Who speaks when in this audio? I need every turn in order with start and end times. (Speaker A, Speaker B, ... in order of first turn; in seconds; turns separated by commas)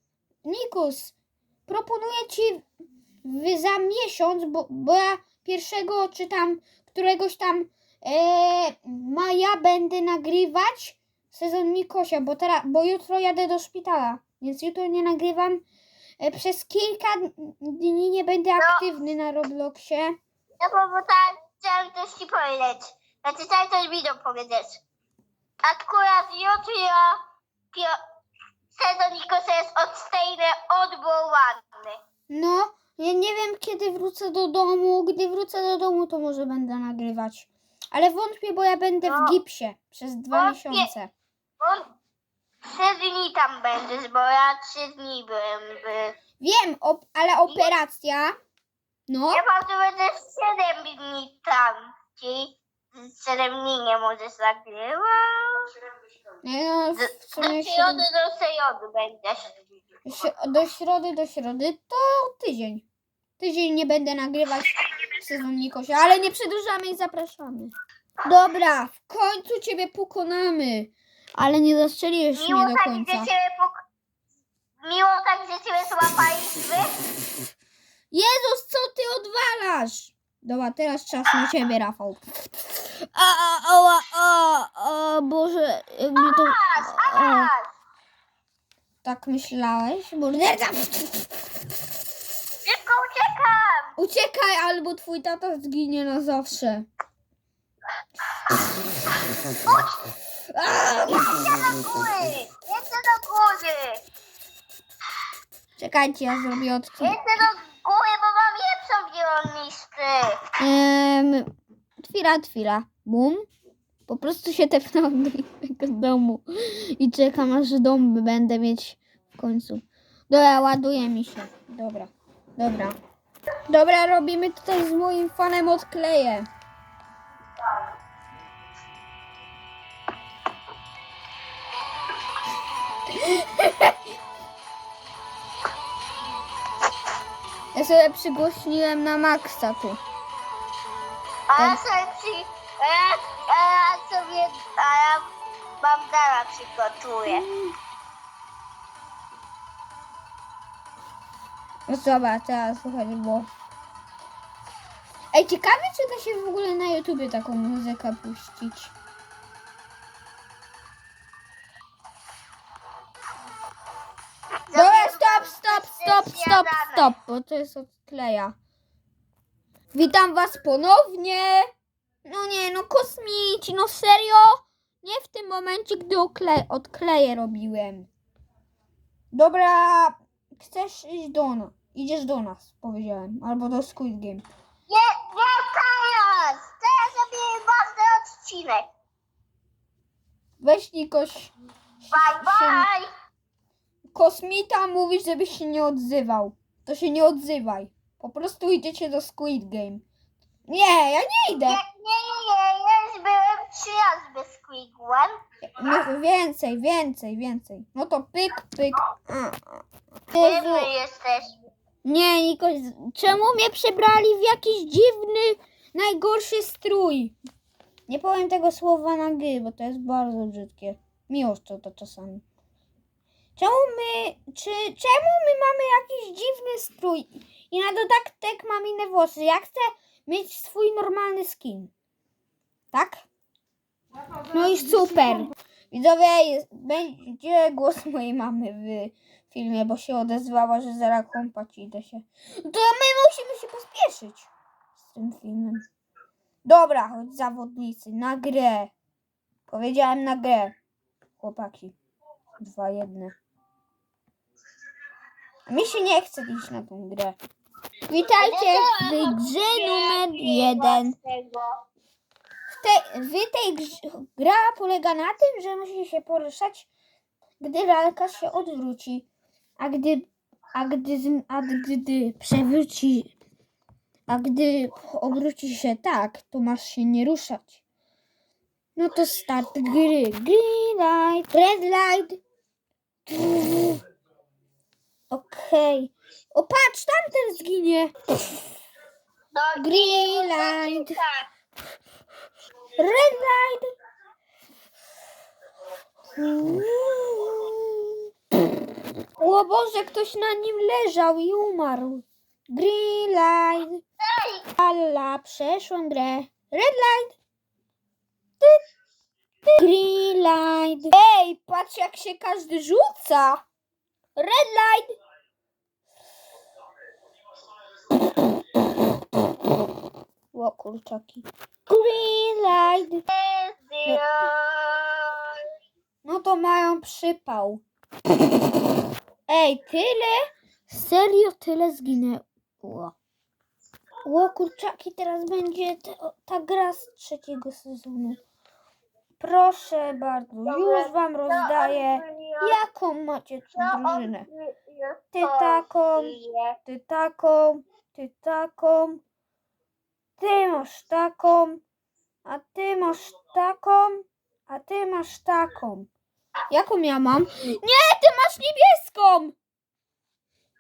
Speaker A: 0.5-1.1, Speaker A: 1.7-2.6, Speaker A: 3.2-15.6, Speaker A: 16.2-20.2, Speaker B: 20.6-24.8, Speaker B: 25.6-27.2, Speaker B: 27.7-28.0, Speaker B: 28.8-32.0, Speaker A: 32.3-41.1, Speaker B: 39.0-39.4, Speaker B: 40.3-40.9, Speaker B: 41.6-41.9, Speaker B: 42.7-46.1, Speaker A: 46.4-48.4, Speaker B: 47.5-47.7, Speaker A: 49.1-49.4, Speaker B: 49.3-55.7, Speaker A: 56.4-58.0, Speaker B: 57.0-59.6, Speaker A: 60.1-62.9, Speaker A: 63.4-67.7, Speaker A: 68.2-73.3, Speaker B: 72.3-73.8, Speaker B: 74.8-77.0, Speaker A: 78.1-82.2, Speaker A: 83.1-87.5, Speaker B: 86.2-87.7, Speaker A: 89.0-91.2, Speaker B: 92.7-94.0, Speaker A: 94.0-96.9, Speaker B: 99.6-100.1, Speaker A: 100.5-101.5, Speaker B: 101.2-104.0, Speaker A: 105.8-107.2, Speaker B: 107.0-110.4, Speaker A: 110.6-111.5, Speaker A: 112.0-113.5, Speaker A: 114.1-123.0, Speaker A: 123.7-126.5, Speaker A: 133.1-133.9, Speaker A: 137.7-140.0, Speaker B: 141.5-145.3, Speaker B: 145.8-147.4, Speaker A: 147.3-147.7, Speaker A: 151.9-153.5, Speaker A: 155.3-158.9, Speaker B: 164.7-167.1, Speaker A: 164.7-168.5, Speaker A: 169.9-171.7, Speaker A: 172.2-178.1, Speaker A: 179.3-184.4, Speaker B: 184.9-188.9, Speaker A: 190.6-192.9, Speaker B: 192.1-193.1, Speaker A: 194.1-200.0, Speaker A: 200.7-201.8, Speaker B: 201.6-205.3, Speaker A: 205.6-210.9, Speaker B: 210.4-211.5, Speaker A: 212.1-217.4, Speaker A: 218.1-222.4, Speaker A: 223.6-231.9, Speaker A: 232.9-233.2, Speaker A: 234.5-245.8, Speaker A: 246.7-248.9, Speaker A: 249.7-250.8, Speaker A: 251.4-251.9, Speaker A: 252.6-253.3, Speaker A: 255.7-257.4, Speaker A: 258.1-261.1, Speaker B: 258.4-261.7, Speaker A: 262.7-266.9, Speaker A: 267.6-269.3, Speaker A: 269.8-273.4, Speaker A: 274.3-277.8, Speaker A: 279.0-282.4, Speaker A: 283.3-284.0, Speaker A: 285.3-288.1, Speaker B: 289.5-291.5, Speaker A: 289.8-291.2, Speaker A: 293.0-293.9, Speaker A: 296.4-298.1, Speaker A: 299.4-304.0, Speaker B: 304.3-304.7, Speaker A: 304.8-307.4, Speaker A: 309.8-313.6, Speaker A: 314.4-315.1, Speaker A: 320.5-323.2, Speaker B: 323.3-325.6, Speaker A: 326.2-327.8, Speaker A: 329.5-333.1, Speaker A: 334.2-338.4, Speaker A: 339.4-344.5, Speaker B: 340.7-342.8, Speaker B: 343.7-346.8, Speaker A: 345.3-346.4, Speaker A: 346.9-349.2, Speaker A: 350.4-351.8, Speaker A: 352.4-356.1, Speaker A: 356.7-359.6